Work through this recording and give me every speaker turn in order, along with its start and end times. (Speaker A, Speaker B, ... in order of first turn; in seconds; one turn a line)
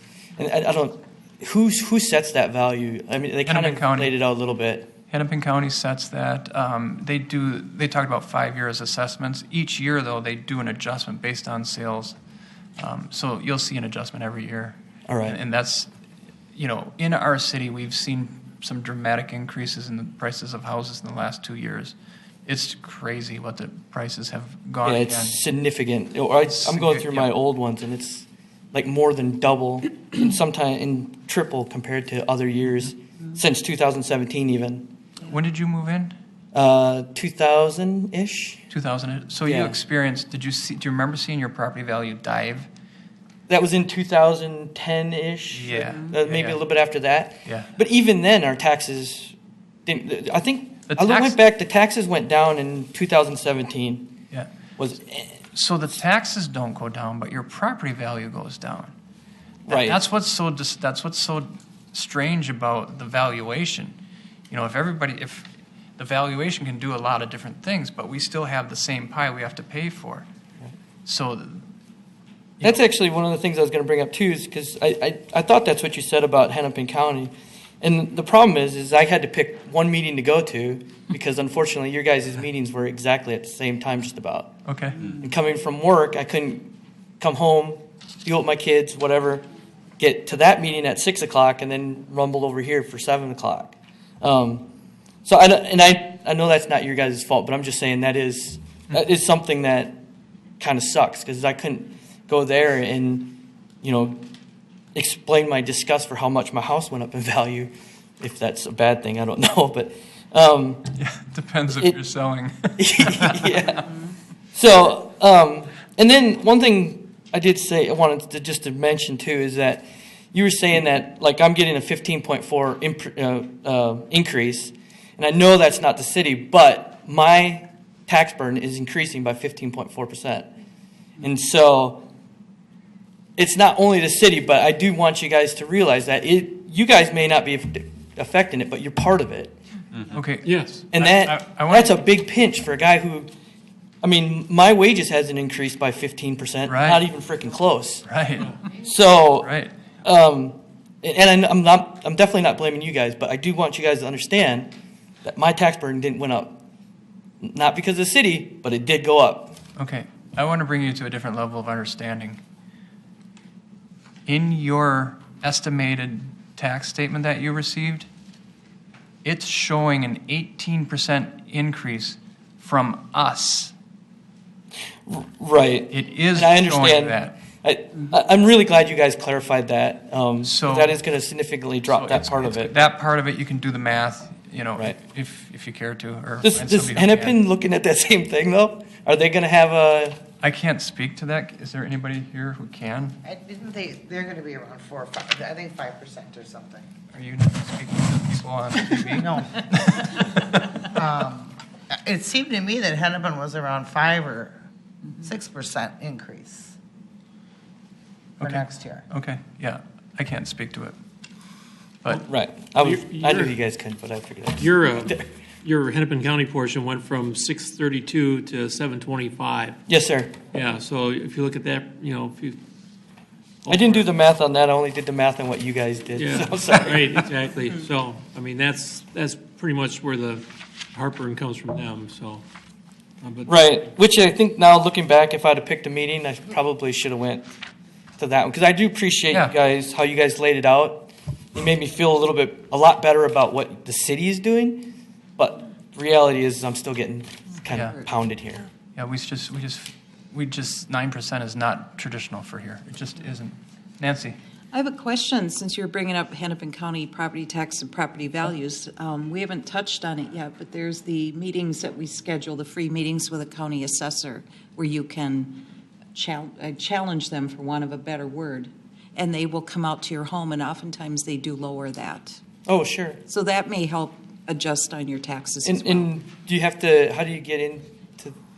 Speaker A: 0.4-4.9
Speaker B: 3.5-4.1
Speaker B: 5.1-12.2
Speaker B: 12.8-15.9
Speaker A: 15.1-15.4
Speaker B: 16.6-25.4
Speaker A: 24.8-34.9
Speaker B: 26.4-27.3
Speaker B: 35.3-36.1
Speaker A: 36.5-38.6
Speaker B: 38.7-42.7
Speaker A: 39.4-39.8
Speaker A: 43.5-49.4
Speaker B: 45.5-46.6
Speaker B: 47.5-47.7
Speaker A: 49.9-54.2
Speaker B: 50.9-51.4
Speaker A: 54.8-55.4
Speaker B: 55.5-58.9
Speaker B: 59.7-64.0
Speaker A: 59.7-60.0
Speaker B: 64.5-70.3
Speaker B: 71.1-71.6
Speaker A: 72.6-89.4
Speaker B: 84.7-85.1
Speaker A: 90.0-94.7
Speaker A: 95.2-100.0
Speaker A: 100.6-104.3
Speaker A: 105.0-110.9
Speaker B: 110.9-113.7
Speaker A: 112.8-113.9
Speaker A: 114.5-130.5
Speaker A: 131.2-132.0
Speaker A: 133.4-139.6
Speaker B: 140.1-142.0
Speaker C: 140.4-140.8
Speaker A: 140.9-143.3
Speaker A: 144.0-148.1
Speaker B: 146.7-147.0
Speaker B: 148.1-148.6
Speaker A: 148.7-149.5
Speaker B: 149.4-149.7
Speaker A: 150.0-154.7
Speaker A: 155.2-156.6
Speaker A: 157.4-159.6
Speaker B: 159.8-162.4
Speaker B: 164.3-168.1
Speaker B: 169.2-173.7
Speaker A: 175.1-182.9
Speaker B: 175.9-177.4
Speaker B: 180.4-181.0
Speaker B: 181.9-187.4
Speaker A: 186.4-190.2
Speaker B: 190.4-193.2
Speaker D: 193.2-196.9
Speaker B: 197.1-199.4
Speaker D: 199.0-200.3
Speaker D: 200.8-204.5
Speaker D: 205.2-206.7
Speaker B: 208.4-210.9
Speaker D: 208.4-209.1
Speaker C: 212.1-213.6
Speaker A: 212.3-215.2
Speaker C: 214.6-219.8
Speaker A: 219.9-220.3
Speaker C: 220.5-222.6
Speaker C: 223.6-224.1
Speaker A: 223.7-227.2
Speaker C: 226.2-232.4
Speaker C: 233.2-233.8
Speaker A: 233.5-237.5
Speaker A: 238.2-248.7
Speaker B: 249.0-254.4
Speaker E: 254.7-265.6
Speaker E: 266.1-272.4
Speaker A: 272.7-273.2
Speaker E: 273.3-276.1
Speaker A: 275.6-278.4